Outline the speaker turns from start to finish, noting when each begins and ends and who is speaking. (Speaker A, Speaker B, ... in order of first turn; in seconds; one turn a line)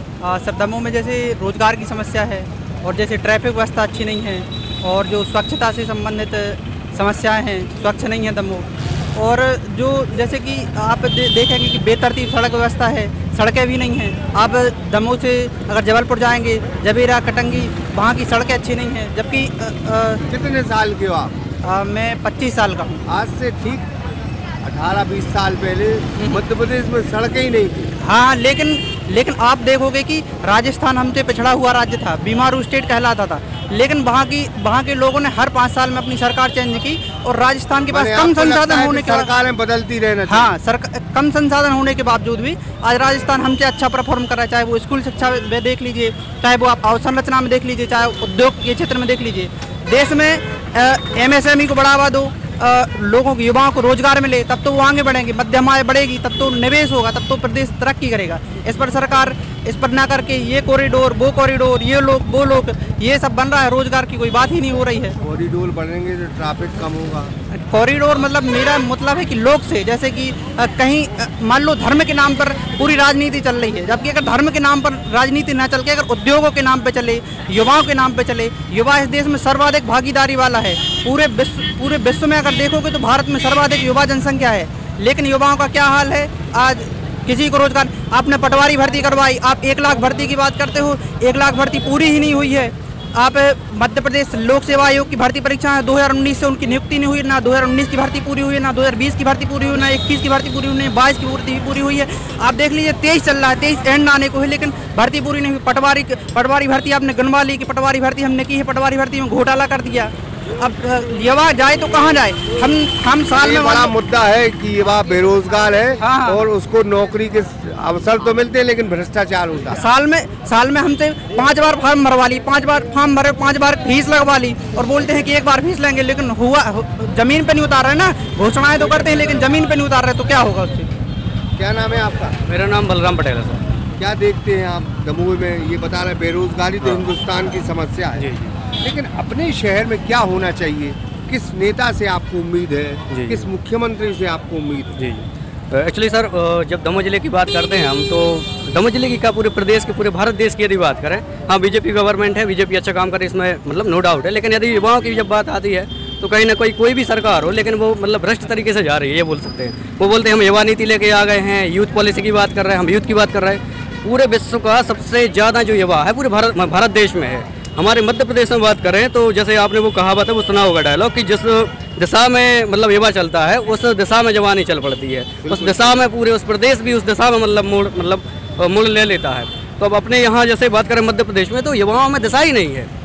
Speaker A: 0.2-20.2
Speaker B: 20.3-21.3
Speaker A: 21.6-23.0
Speaker B: 23.1-23.9
Speaker B: 24.6-27.9
Speaker A: 28.0-39.3
Speaker B: 37.9-40.5
Speaker A: 40.3-65.2
Speaker B: 65.2-67.3
Speaker A: 67.5-113.9
Speaker B: 113.3-119.8
Speaker A: 116.0-116.4
Speaker A: 119.7-130.9
Speaker B: 131.6-132.4
Speaker C: 132.5-133.6
Speaker B: 134.0-138.3
Speaker C: 136.8-137.1
Speaker C: 138.2-138.5
Speaker B: 138.8-145.0
Speaker C: 143.1-143.5
Speaker C: 145.0-182.9
Speaker B: 175.4-176.0